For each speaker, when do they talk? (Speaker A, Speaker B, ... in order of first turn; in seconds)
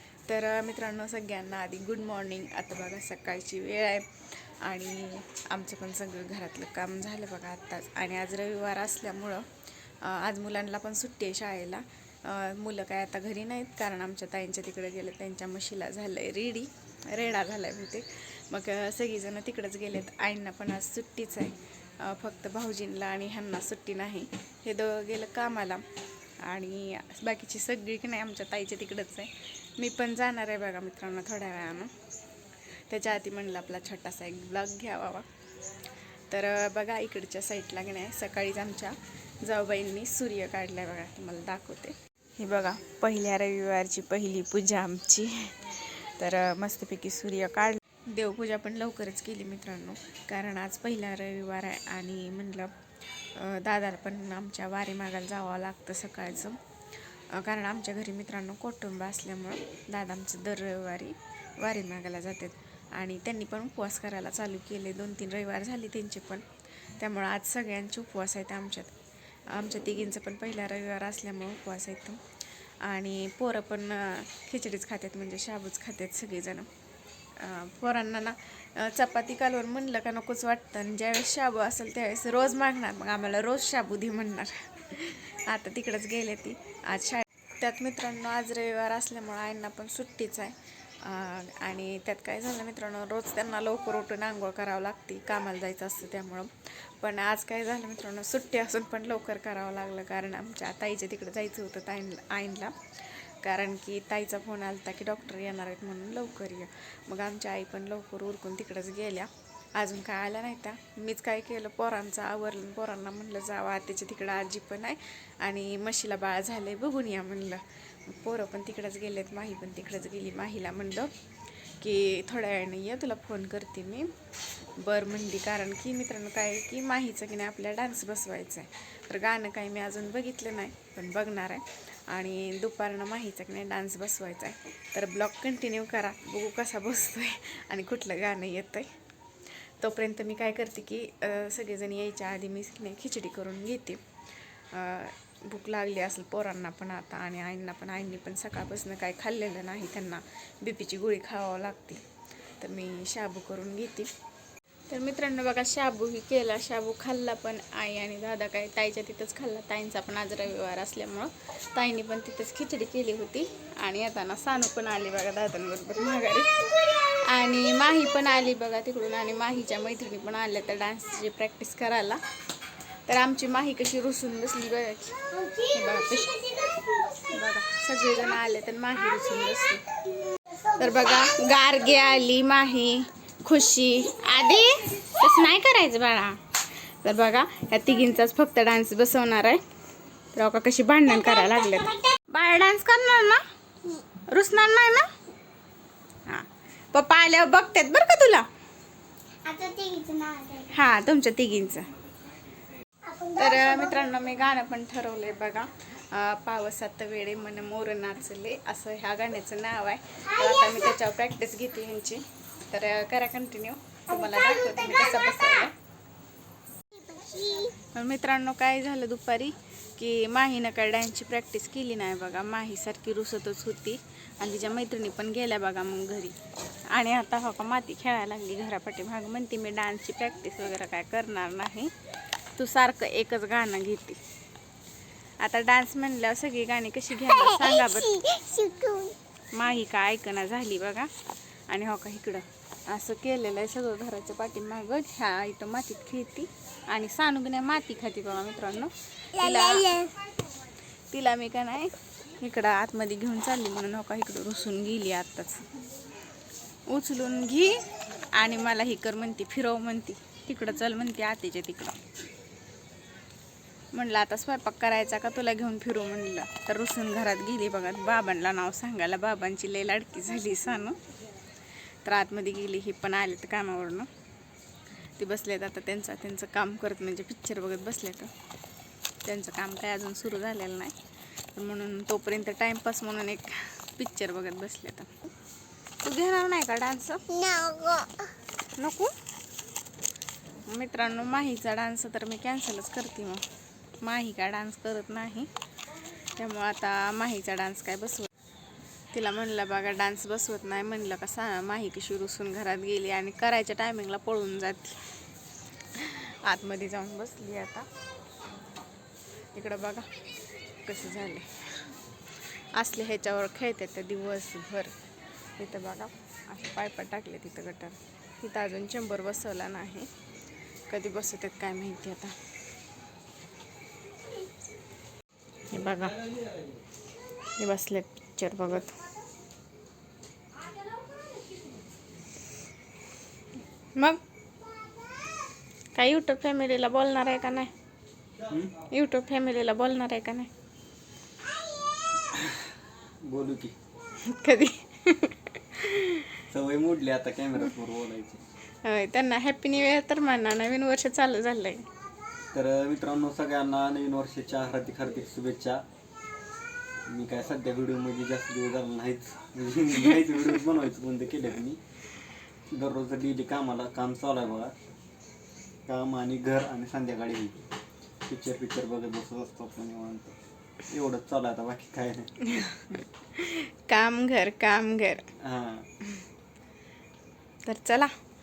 Speaker A: 0.3-9.4, 10.0-25.9, 26.4-31.9, 32.9-35.3, 36.3-52.7, 53.4-56.6, 57.3-66.5, 67.0-69.0, 69.5-72.2, 72.8-76.7, 77.4-121.1, 121.8-124.1, 124.8-138.9, 139.8-144.0, 144.7-152.0, 152.6-154.1, 154.9-172.2, 173.1-179.8, 180.7-186.4, 187.0-189.6, 190.3-193.4, 194.3-195.1, 196.3-198.5, 200.6-201.9, 203.3-215.7, 217.8-226.4, 226.9-231.9, 232.6-234.2, 235.4-238.7, 239.5-241.1, 241.7-250.1, 251.1-255.7, 256.9-257.8, 258.3-262.0, 263.9-271.0, 272.1-274.1, 275.2-278.3, 279.2-281.0, 281.5-285.3, 286.0-287.7, 288.8-289.1, 290.7-293.4, 294.0-295.5, 296.4-298.3, 299.1-305.0, 305.9-307.9, 309.5-310.1, 310.8-311.9, 312.8-314.9, 315.6-320.1, 320.9-322.4, 325.7-326.2, 327.6-329.0, 334.0-334.2, 335.9-337.7, 338.9-340.5, 344.2-346.4, 348.8-351.9, 372.4-375.3, 377.6-378.1
Speaker B: 199.4-200.7, 203.1-203.4, 216.9-217.7, 238.4-239.2, 249.5-250.1, 287.4-288.2
Speaker C: 338.5-338.7, 342.3-342.6, 343.2-343.8, 346.5-348.4, 352.5-355.8, 357.1-361.8, 362.7-364.7, 365.9-367.7, 368.3-370.4, 370.9-372.3, 375.4-375.9